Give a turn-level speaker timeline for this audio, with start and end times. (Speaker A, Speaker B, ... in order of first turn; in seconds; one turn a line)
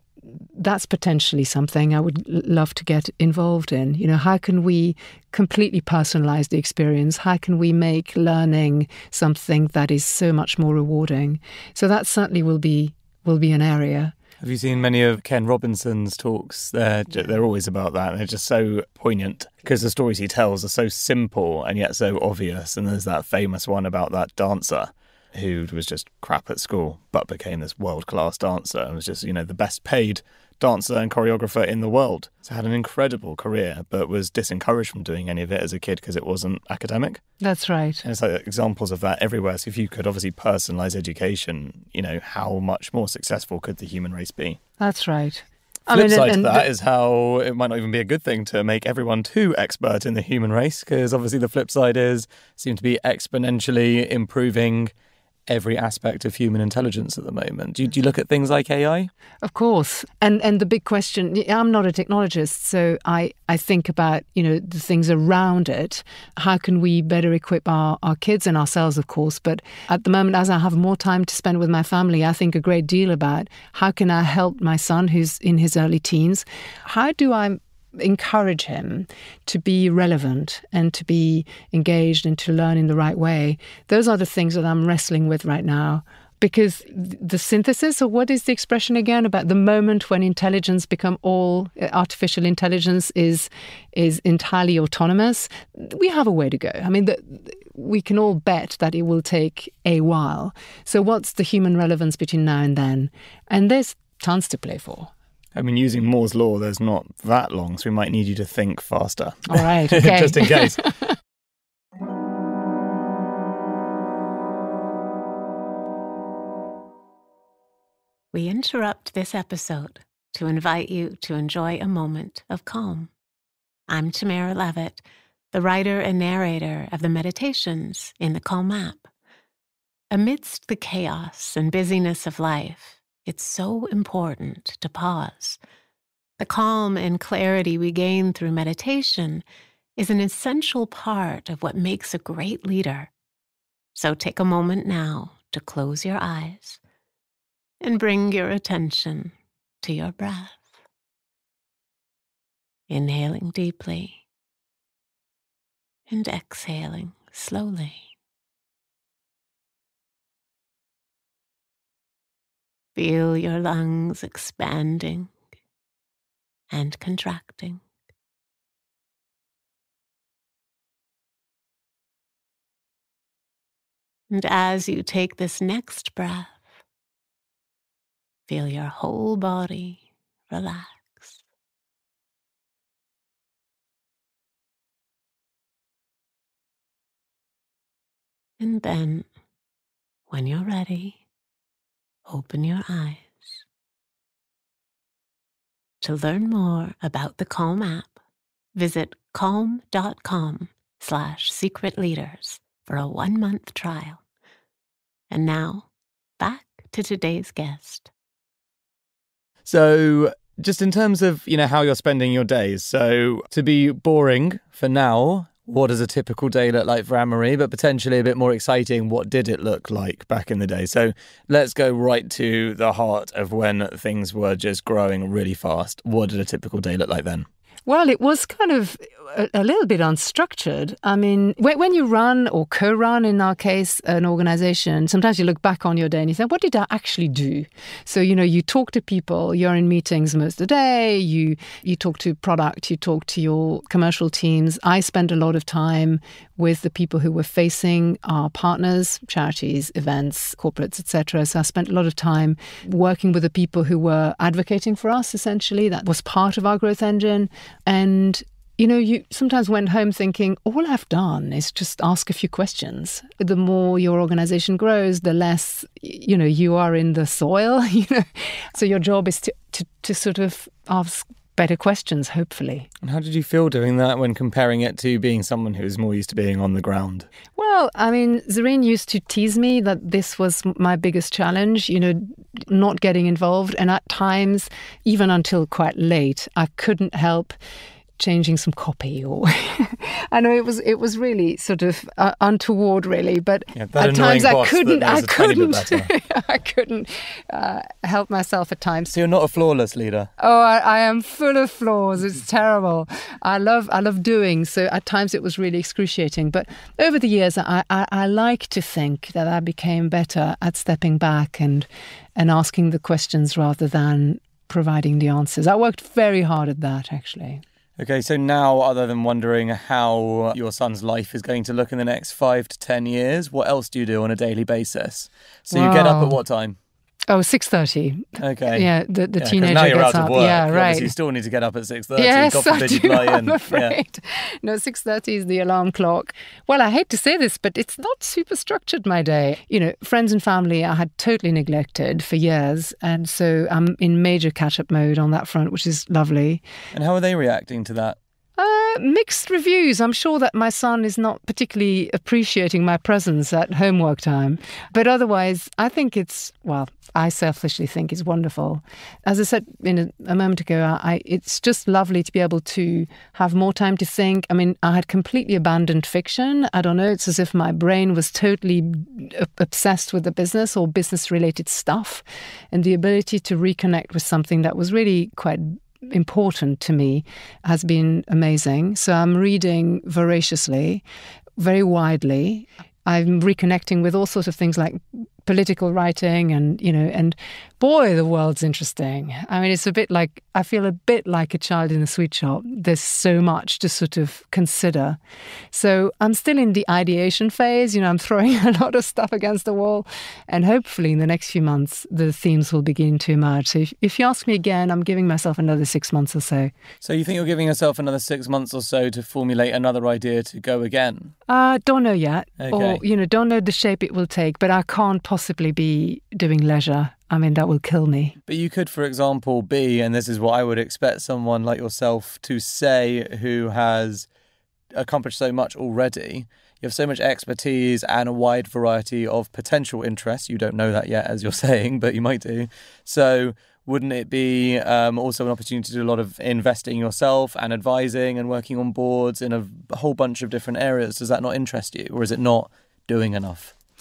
Speaker A: 0.6-14.1
Speaker B: 14.4-37.2
Speaker A: 37.4-38.0
Speaker B: 38.0-44.6
Speaker A: 44.8-46.7
Speaker B: 45.9-54.9
Speaker B: 55.5-59.1
Speaker A: 59.4-105.1
Speaker B: 105.5-110.8
Speaker A: 109.5-111.1
Speaker C: 118.3-123.1
Speaker C: 123.9-129.1
Speaker C: 130.1-135.6
Speaker C: 136.4-139.4
Speaker C: 140.0-143.1
Speaker C: 143.9-146.8
Speaker C: 147.8-150.7
Speaker C: 152.9-154.2
Speaker C: 156.1-158.0
Speaker C: 162.9-165.3
Speaker C: 166.7-167.8
Speaker C: 174.3-176.6
Speaker C: 178.5-181.4
Speaker C: 188.6-189.3
Speaker C: 190.3-191.2
Speaker C: 192.3-193.6
Speaker C: 196.0-198.1
Speaker C: 198.7-204.2
Speaker C: 205.3-205.9
Speaker C: 206.4-208.1
Speaker B: 209.7-227.5
Speaker A: 227.9-272.9
Speaker B: 273.0-277.3
Speaker A: 277.6-287.6
Speaker A: 288.2-299.1
Speaker B: 293.7-296.1
Speaker B: 299.1-300.3
Speaker A: 300.4-317.6
Speaker B: 318.0-326.8
Speaker A: 325.7-326.4
Speaker A: 327.3-331.1
Speaker B: 328.4-333.9
Speaker A: 332.2-346.6
Speaker B: 346.9-348.2
Speaker A: 348.6-381.0
Speaker A: 381.6-395.2
Speaker A: 395.7-406.7
Speaker B: 407.0-411.3
Speaker A: 411.5-418.3
Speaker B: 412.6-413.0
Speaker B: 418.5-424.3
Speaker B: 424.9-443.7